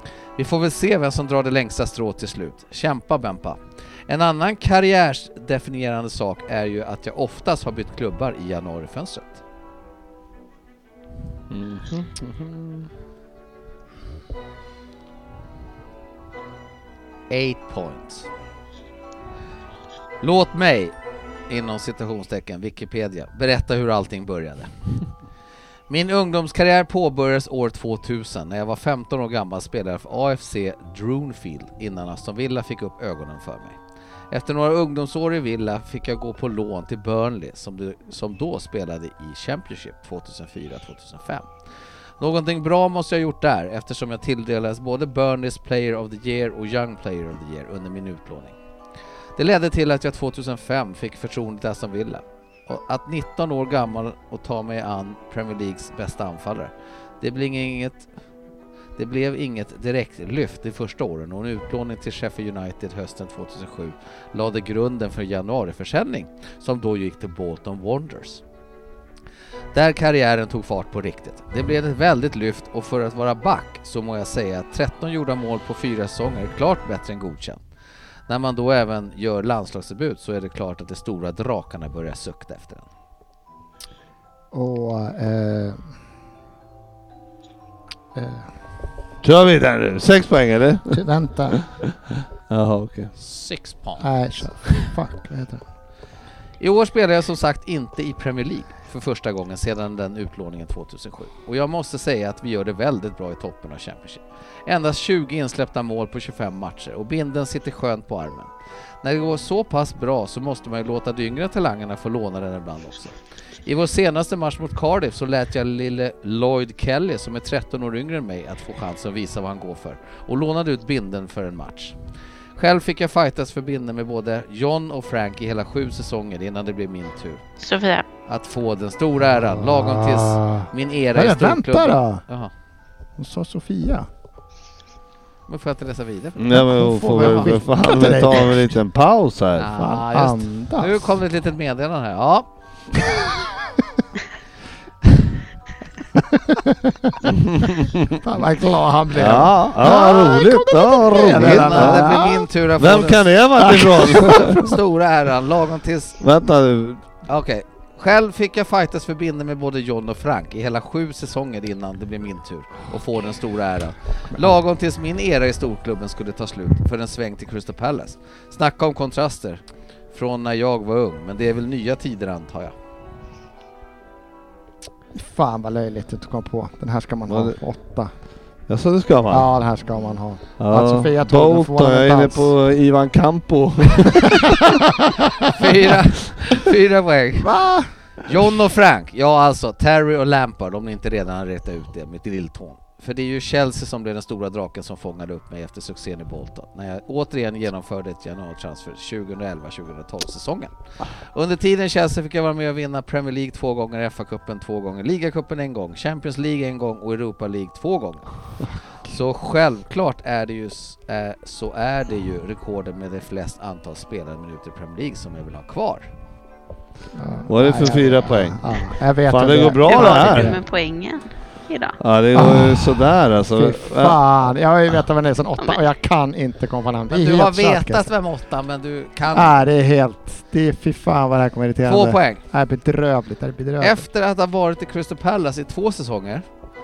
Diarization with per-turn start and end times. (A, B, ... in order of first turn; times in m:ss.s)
0:00.4-0:09.4 A
0:11.5-0:12.8 B
0:17.3-0:18.3 A
0:20.2-0:20.9 A
0:21.5-0:24.7 A
0:25.9-0:33.8 A
0:34.3-0:41.5 A
0:42.2-0:48.6 A
0:49.4-0:58.1 A
0:59.0-1:08.4 A
1:09.7-1:17.6 A
1:18.3-1:22.8 A
1:24.5-1:25.8 C
1:28.1-1:28.5 C
1:29.2-1:33.1 B
1:30.9-1:31.6 C
1:33.2-1:34.1 A
1:34.0-1:35.6 C
1:36.6-1:48.5 A
1:49.0-2:02.0 A
2:02.6-2:07.4 A
2:07.6-2:08.1 D
2:08.3-2:12.5 A
2:09.3-2:12.2 C
2:13.2-2:14.1 C
2:15.5-2:17.5 A
2:16.4-2:19.7 B
2:16.5-2:18.6 C
2:19.6-2:22.4 A
2:19.8-2:21.1 C
2:26.1-2:27.2 C
2:27.3-2:28.2 B
2:28.2-2:32.4 C
2:29.1-2:32.2 B
2:31.3-2:33.3 A
2:32.8-2:34.8 B
2:33.6-2:34.6 C
2:34.2-2:36.2 A
2:36.2-2:37.0 B
2:37.3-2:49.6 A
2:50.1-2:52.7 A
2:55.2-2:58.1 C
2:57.3-2:57.6 B
2:58.7-2:59.5 B
2:59.3-3:02.5 C
3:00.6-3:04.8 B
3:04.3-3:05.5 C
3:05.5-3:07.5 A
3:07.4-3:07.9 C
3:08.2-3:20.7 A
3:21.3-3:28.3 A
3:29.1-3:36.1 A
3:37.2-3:40.6 C
3:37.5-3:38.6 B
3:39.3-3:40.6 B
3:39.8-3:42.0 D
3:42.0-3:44.2 B
3:42.3-3:43.0 C
3:43.6-3:48.0 C
3:47.1-3:49.5 A
3:49.3-3:54.0 C
3:51.8-3:52.4 A
3:53.8-3:56.4 A